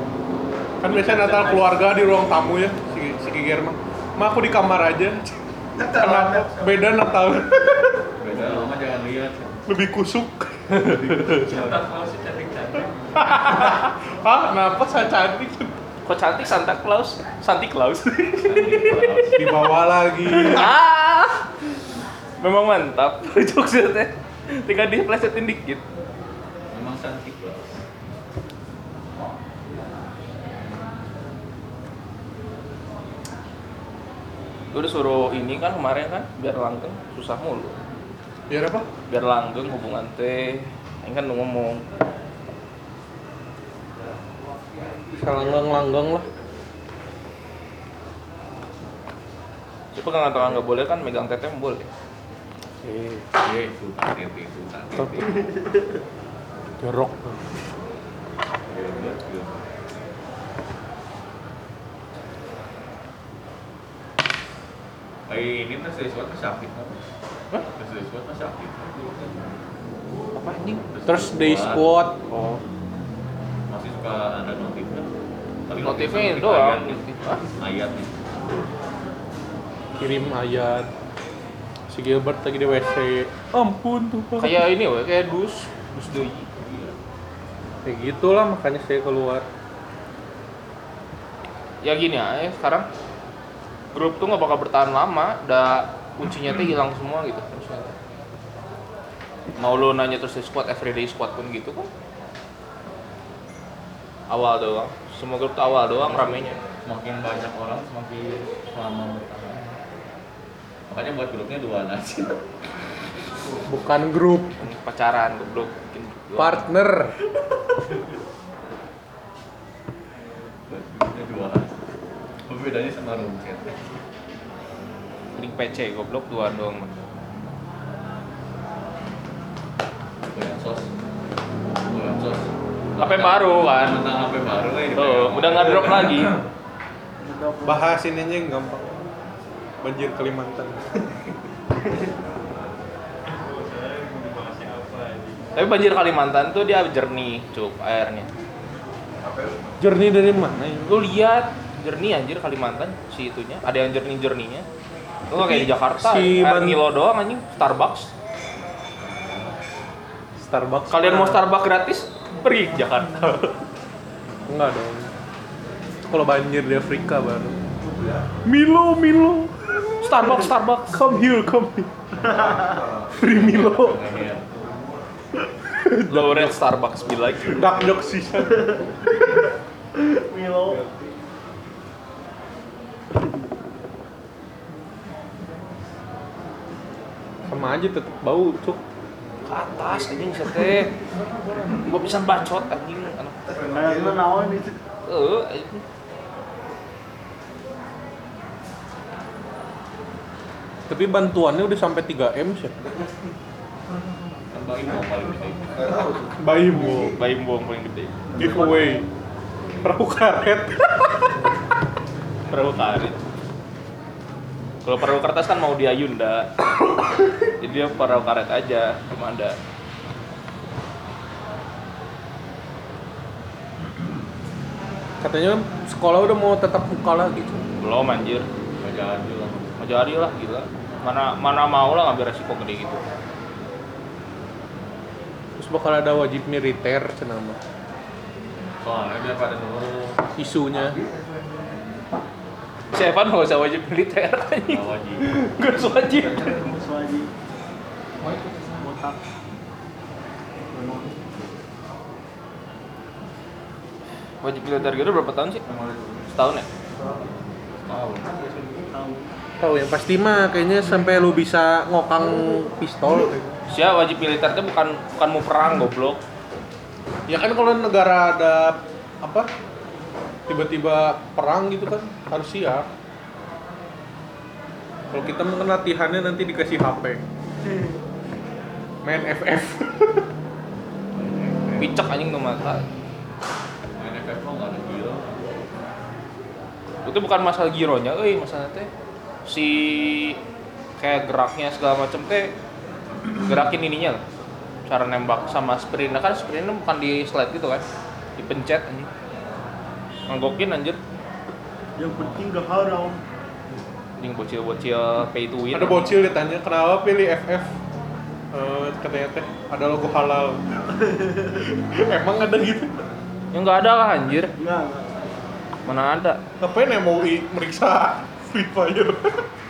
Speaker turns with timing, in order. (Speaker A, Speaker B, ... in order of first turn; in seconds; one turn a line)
Speaker A: 0.8-8.1
Speaker B: 0.9-1.7
Speaker C: 5.8-6.7
Speaker C: 8.2-9.6
Speaker A: 9.7-11.4
Speaker C: 10.9-11.8
Speaker B: 10.9-13.3
Speaker A: 13.2-15.7
Speaker D: 16.1-19.3
Speaker C: 18.4-19.5
Speaker A: 19.4-20.7
Speaker D: 20.3-21.5
Speaker D: 22.4-25.8
Speaker C: 26.7-27.8
Speaker D: 34.7-37.8
Speaker A: 38.5-38.9
Speaker D: 39.1-41.9
Speaker A: 45.1-46.3
Speaker D: 49.9-51.9
Speaker A: 52.8-53.3
Speaker C: 53.4-55.4
Speaker A: 55.0-55.2
Speaker E: 55.2-55.8
Speaker A: 56.8-57.5
Speaker C: 58.7-59.7
Speaker C: 65.3-67.0
Speaker C: 67.8-69.4
Speaker D: 70.3-70.8
Speaker C: 70.9-71.9
Speaker A: 71.1-72.2
Speaker D: 72.3-72.6
Speaker C: 73.7-75.1
Speaker C: 75.7-77.0
Speaker D: 75.8-77.4
Speaker C: 77.6-78.2
Speaker A: 80.0-80.9
Speaker A: 81.9-84.6
Speaker D: 84.4-86.5
Speaker C: 86.6-87.0
Speaker A: 87.8-89.5
Speaker D: 91.8-92.9
Speaker D: 93.9-98.0
Speaker D: 99.6-101.9
Speaker D: 104.3-106.6
Speaker C: 106.2-109.8
Speaker C: 110.9-112.4
Speaker A: 113.7-114.5
Speaker D: 114.6-116.7
Speaker A: 116.3-117.2
Speaker C: 120.7-121.8
Speaker C: 122.5-123.9
Speaker D: 125.3-126.9
Speaker C: 130.3-130.9
Speaker C: 131.8-136.3
Speaker D: 133.0-134.0
Speaker D: 134.9-136.4
Speaker E: 137.2-137.9
Speaker A: 137.6-139.0
Speaker A: 139.8-140.9
Speaker B: 143.3-145.3
Speaker C: 144.2-145.1
Speaker D: 145.6-148.3
Speaker A: 149.8-151.0
Speaker D: 150.9-154.7
Speaker D: 155.3-158.1
Speaker A: 155.3-156.8
Speaker A: 160.4-161.4
Speaker D: 160.9-163.6
Speaker A: 164.5-165.1
Speaker A: 166.1-167.6
Speaker B: 167.9-168.2
Speaker A: 168.4-172.0
Speaker D: 170.0-171.0
Speaker E: 172.2-172.8
Speaker C: 172.2-174.5
Speaker A: 173.1-174.1
Speaker B: 174.6-174.9
Speaker A: 175.7-176.6
Speaker D: 176.1-177.8
Speaker A: 177.5-178.8
Speaker E: 178.4-179.4
Speaker E: 179.9-180.8
Speaker B: 180.7-181.1
Speaker A: 187.4-188.8
Speaker D: 189.5-190.9
Speaker A: 190.6-191.9
Speaker D: 191.7-193.4
Speaker B: 193.5-194.0
Speaker E: 193.6-194.8
Speaker D: 195.1-195.8
Speaker A: 200.9-202.7
Speaker C: 204.5-206.0
Speaker B: 205.8-206.3
Speaker A: 206.4-207.2
Speaker D: 207.1-208.4
Speaker A: 208.3-209.1
Speaker C: 209.6-209.9
Speaker A: 209.8-211.4
Speaker D: 212.5-213.2
Speaker D: 214.8-216.5
Speaker D: 217.6-219.6
Speaker A: 225.2-227.7
Speaker D: 227.8-228.5
Speaker C: 228.8-229.8
Speaker D: 229.8-233.0
Speaker A: 235.6-237.6
Speaker C: 238.8-240.2
Speaker A: 240.4-241.0
Speaker B: 241.0-241.6
Speaker D: 242.9-246.6
Speaker C: 244.7-245.3
Speaker E: 246.2-247.3
Speaker E: 248.8-249.2
Speaker C: 250.8-251.3
Speaker D: 254.4-255.6
Speaker C: 255.7-256.2
Speaker D: 256.3-256.7
Speaker C: 257.9-258.8
Speaker E: 258.9-259.3
Speaker A: 259.6-263.4
Speaker D: 263.7-266.2
Speaker A: 267.3-269.5
Speaker A: 270.5-272.9
Speaker A: 275.1-277.2
Speaker A: 279.0-280.3
Speaker C: 281.1-282.0
Speaker D: 281.8-282.9
Speaker C: 284.0-285.6
Speaker D: 287.1-288.9
Speaker D: 289.4-290.4
Speaker D: 291.0-292.6
Speaker D: 293.4-294.2
Speaker D: 294.9-297.9
Speaker D: 298.4-299.1
Speaker D: 300.3-301.0
Speaker E: 302.0-303.2
Speaker D: 304.2-306.1
Speaker A: 305.7-307.8
Speaker A: 308.5-310.6
Speaker E: 310.9-311.6
Speaker A: 311.6-313.0
Speaker D: 313.5-314.6
Speaker E: 314.6-315.2
Speaker D: 315.9-316.4
Speaker A: 316.6-319.5